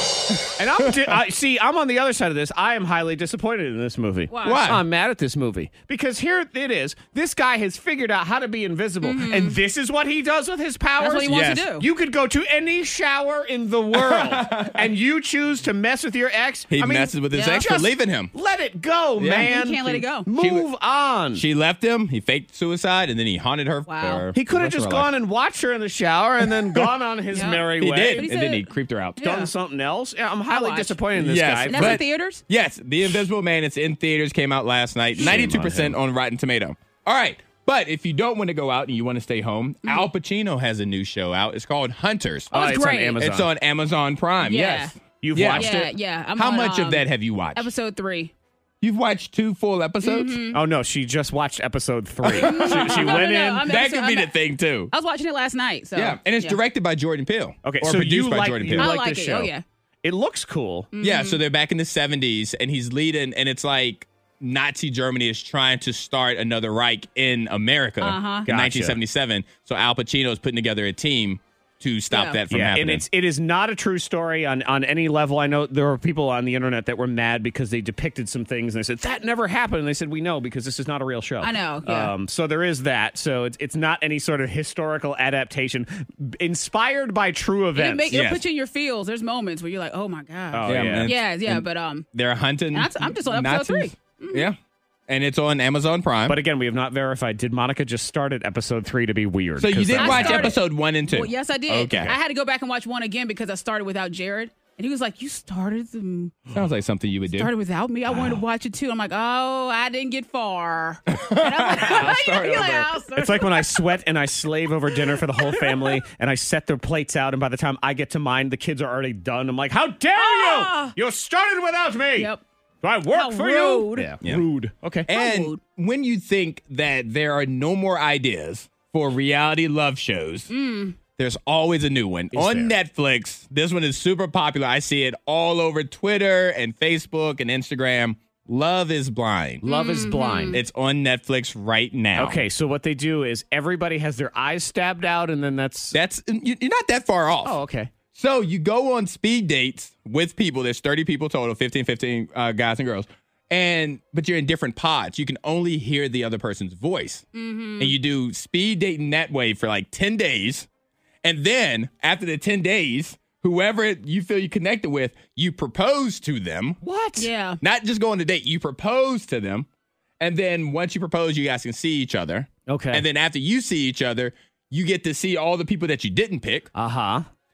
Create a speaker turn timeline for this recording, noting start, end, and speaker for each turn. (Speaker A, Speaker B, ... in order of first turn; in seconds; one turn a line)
Speaker A: 0.6-21.4
Speaker B: 4.3-4.7
Speaker C: 4.4-4.8
Speaker B: 9.0-9.6
Speaker B: 11.0-11.9
Speaker C: 11.3-11.7
Speaker C: 13.9-14.8
Speaker C: 16.7-18.3
Speaker B: 17.3-17.8
Speaker C: 19.2-19.5
Speaker B: 19.4-20.3
Speaker C: 20.3-20.7
Speaker C: 21.3-25.1
Speaker B: 23.9-24.3
Speaker A: 24.3-28.3
Speaker B: 27.3-29.5
Speaker C: 27.6-29.2
Speaker A: 29.2-32.0
Speaker B: 30.5-31.0
Speaker C: 31.2-42.5
Speaker B: 31.7-32.4
Speaker A: 35.2-36.0
Speaker B: 42.5-43.2
Speaker A: 42.5-43.5
Speaker C: 43.2-45.7
Speaker B: 44.4-48.3
Speaker A: 45.2-45.9
Speaker C: 46.4-47.7
Speaker C: 48.8-50.4
Speaker B: 50.0-50.6
Speaker A: 50.5-53.6
Speaker C: 52.2-54.9
Speaker B: 52.4-54.4
Speaker B: 54.9-56.6
Speaker C: 55.9-59.0
Speaker A: 57.6-59.5
Speaker B: 58.7-59.6
Speaker A: 60.0-60.9
Speaker B: 60.9-61.4
Speaker C: 61.0-73.0
Speaker B: 68.0-68.5
Speaker A: 68.5-69.0
Speaker B: 72.1-72.4
Speaker A: 72.5-88.1
Speaker B: 81.4-82.1
Speaker B: 87.8-92.1
Speaker C: 88.1-88.4
Speaker A: 90.5-91.1
Speaker C: 90.7-94.5
Speaker B: 92.7-94.5
Speaker C: 95.1-96.4
Speaker A: 96.3-100.5
Speaker C: 99.6-102.2
Speaker B: 99.9-106.4
Speaker C: 106.5-107.5
Speaker B: 107.3-113.8
Speaker C: 111.1-112.9
Speaker A: 113.2-122.3
Speaker B: 120.2-121.0
Speaker B: 122.2-122.4
Speaker A: 122.8-125.1
Speaker B: 123.1-124.1
Speaker C: 125.1-130.5
Speaker B: 125.1-125.6
Speaker B: 130.5-131.0
Speaker C: 131.2-139.6
Speaker A: 132.3-132.7
Speaker A: 139.6-140.6
Speaker B: 139.6-140.6
Speaker C: 140.5-142.4
Speaker A: 142.2-146.0
Speaker C: 145.9-147.6
Speaker A: 147.4-147.9
Speaker C: 148.1-157.2
Speaker B: 157.3-157.9
Speaker C: 157.8-160.7
Speaker C: 161.2-166.8
Speaker A: 166.8-167.3
Speaker B: 167.2-167.6
Speaker C: 167.6-169.7
Speaker C: 170.2-176.7
Speaker A: 172.7-173.1
Speaker A: 176.7-177.2